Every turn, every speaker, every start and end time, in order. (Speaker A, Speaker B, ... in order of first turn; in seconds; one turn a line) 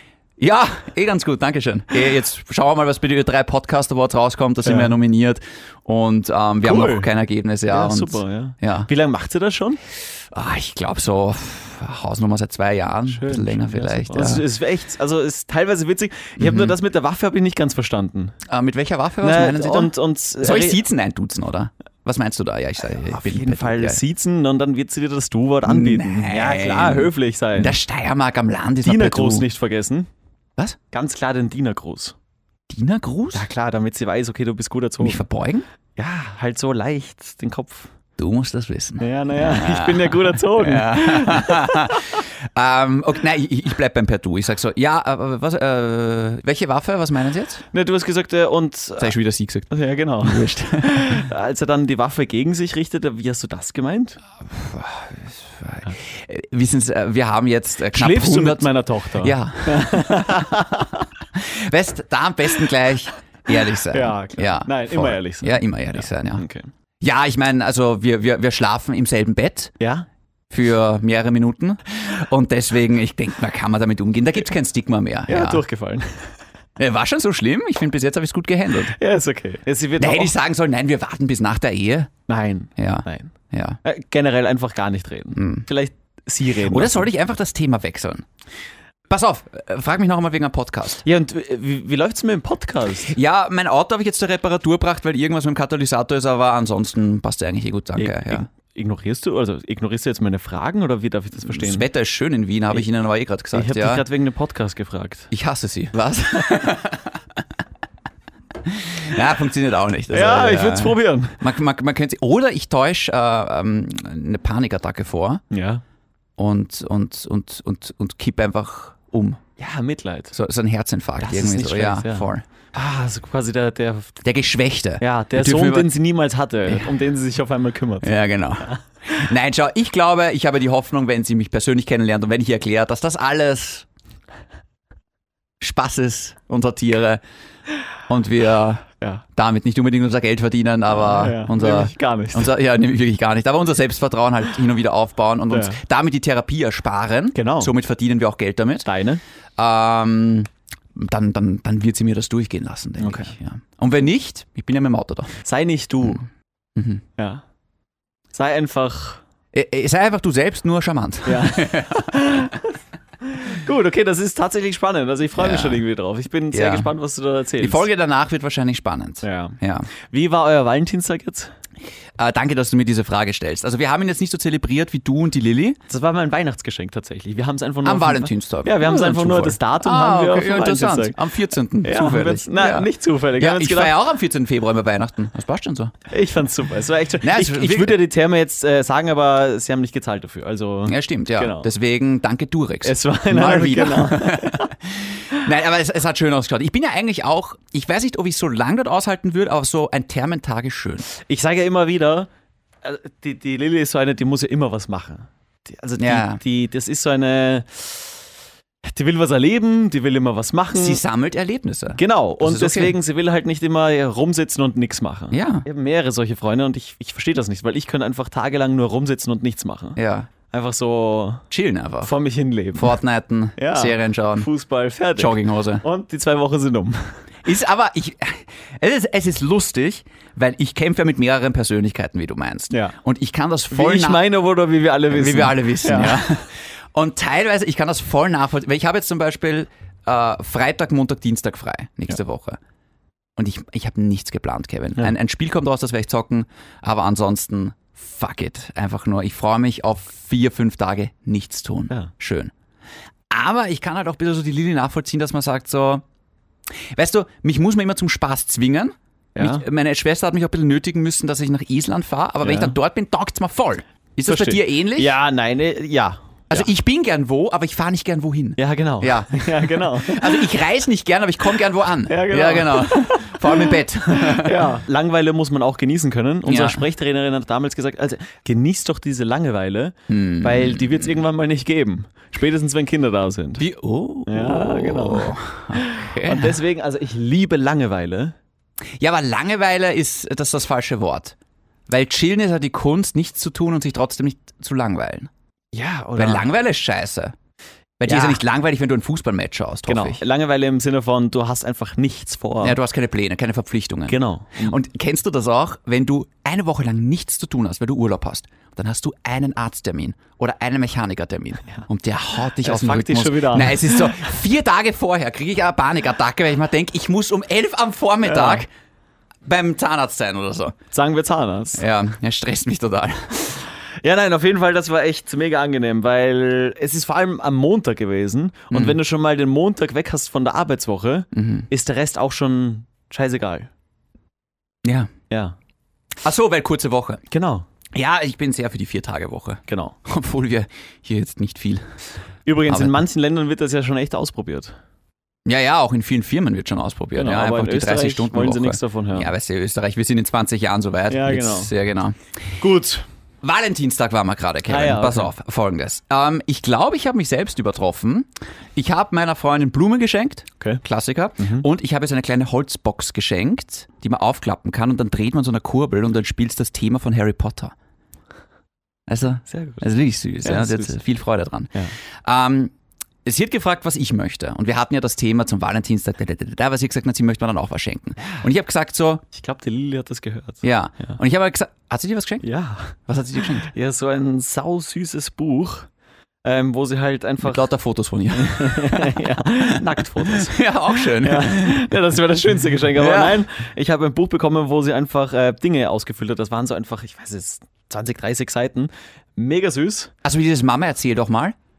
Speaker A: 0.4-8.9
Speaker B: 4.6-4.9
Speaker B: 6.6-7.1
Speaker B: 7.7-9.8
Speaker A: 10.3-14.4
Speaker B: 13.1-18.4
Speaker A: 16.4-16.8
Speaker A: 18.5-24.0
Speaker B: 19.2-20.8
Speaker B: 23.0-27.8
Speaker A: 25.6-29.5
Speaker B: 28.8-30.1
Speaker B: 30.9-32.2
Speaker A: 32.7-33.5
Speaker B: 33.3-35.2
Speaker A: 35.0-35.7
Speaker B: 36.0-37.9
Speaker A: 38.2-47.7
Speaker B: 39.0-42.2
Speaker B: 47.7-49.1
Speaker A: 49.0-49.7
Speaker B: 49.7-54.2
Speaker A: 50.2-51.2
Speaker A: 54.5-58.7
Speaker B: 57.9-61.1
Speaker A: 59.2-60.1
Speaker A: 61.4-66.5
Speaker B: 63.9-66.7
Speaker A: 67.0-69.8
Speaker B: 69.8-70.1
Speaker A: 70.5-75.6
Speaker B: 75.3-76.3
Speaker A: 76.8-79.0
Speaker B: 79.0-80.3
Speaker A: 80.0-82.1
Speaker B: 82.3-83.3
Speaker A: 82.8-83.8
Speaker B: 83.8-87.1
Speaker A: 85.3-85.7
Speaker A: 86.6-88.3
Speaker A: 89.1-91.0
Speaker B: 91.0-93.2
Speaker A: 93.1-98.5
Speaker B: 98.0-101.9
Speaker A: 101.5-104.0
Speaker B: 103.5-105.3
Speaker A: 105.3-107.2
Speaker A: 108.7-115.4
Speaker B: 110.1-111.4
Speaker B: 115.5-115.8
Speaker A: 116.4-119.4
Speaker B: 119.6-120.3
Speaker A: 120.3-122.5
Speaker B: 121.2-124.1
Speaker A: 124.2-125.9
Speaker B: 125.0-128.8
Speaker A: 126.7-126.9
Speaker A: 128.0-133.9
Speaker A: 135.6-137.2
Speaker A: 138.1-148.9
Speaker B: 141.0-142.5
Speaker B: 145.5-145.8
Speaker B: 147.3-147.7
Speaker B: 148.8-149.2
Speaker A: 149.6-155.4
Speaker B: 153.0-153.3
Speaker B: 155.4-156.3
Speaker A: 156.8-157.0
Speaker B: 157.2-157.4
Speaker B: 158.3-159.2
Speaker A: 159.5-162.3
Speaker B: 161.2-167.9
Speaker A: 165.4-165.8
Speaker A: 166.5-166.9
Speaker A: 167.6-169.9
Speaker B: 169.2-171.5
Speaker A: 172.2-175.8
Speaker B: 175.9-181.2
Speaker A: 177.8-185.9
Speaker B: 181.8-183.9
Speaker B: 186.1-191.7
Speaker A: 187.2-188.0
Speaker A: 190.9-201.1
Speaker B: 192.8-194.7
Speaker B: 201.1-202.3
Speaker B: 202.8-208.2
Speaker A: 206.0-206.4
Speaker B: 208.8-211.0
Speaker A: 210.8-213.0
Speaker B: 211.9-221.4
Speaker A: 215.3-215.7
Speaker A: 220.0-220.3
Speaker A: 221.5-222.2
Speaker B: 222.0-223.0
Speaker A: 222.8-224.5
Speaker B: 223.6-227.2
Speaker A: 225.2-225.8
Speaker A: 227.4-234.2
Speaker B: 232.7-233.0
Speaker B: 233.7-236.3
Speaker A: 235.1-242.6
Speaker A: 243.4-252.5
Speaker A: 253.3-256.0
Speaker A: 256.9-265.1
Speaker B: 259.4-259.6
Speaker B: 262.4-262.8
Speaker B: 264.3-266.7
Speaker A: 266.5-274.8
Speaker B: 268.6-270.5
Speaker B: 272.1-283.6
Speaker A: 276.5-276.8
Speaker A: 280.1-281.2
Speaker A: 283.6-286.6
Speaker B: 284.3-288.4
Speaker A: 289.0-291.4
Speaker A: 291.9-295.3
Speaker B: 295.7-296.5
Speaker A: 296.2-297.4
Speaker A: 298.0-300.2
Speaker B: 298.1-298.4
Speaker B: 299.9-302.8
Speaker A: 302.6-318.7
Speaker B: 304.1-304.8
Speaker B: 312.6-314.2
Speaker B: 318.2-318.6
Speaker A: 319.4-320.8
Speaker B: 320.9-321.8
Speaker A: 321.8-323.4
Speaker B: 323.5-333.7
Speaker A: 328.7-329.0
Speaker A: 331.3-331.7
Speaker A: 334.8-335.1
Speaker B: 335.3-335.6
Speaker A: 336.2-337.2
Speaker B: 337.3-337.7
Speaker A: 337.9-341.9
Speaker B: 339.7-340.0
Speaker B: 342.5-344.8
Speaker A: 342.7-343.0
Speaker A: 345.4-352.2
Speaker B: 347.2-349.3
Speaker B: 351.1-351.7
Speaker B: 352.6-353.1
Speaker A: 353.4-367.7
Speaker B: 354.7-355.3
Speaker B: 361.4-361.7
Speaker A: 369.1-372.7
Speaker B: 369.5-369.9
Speaker B: 370.4-371.0
Speaker A: 373.2-379.2
Speaker B: 379.3-381.2
Speaker A: 380.6-382.5
Speaker B: 382.4-383.0
Speaker A: 383.1-383.7
Speaker B: 383.6-385.9
Speaker B: 386.4-387.7
Speaker A: 387.4-392.0
Speaker B: 388.4-390.6
Speaker B: 391.2-400.1
Speaker A: 392.9-393.4
Speaker A: 400.2-401.6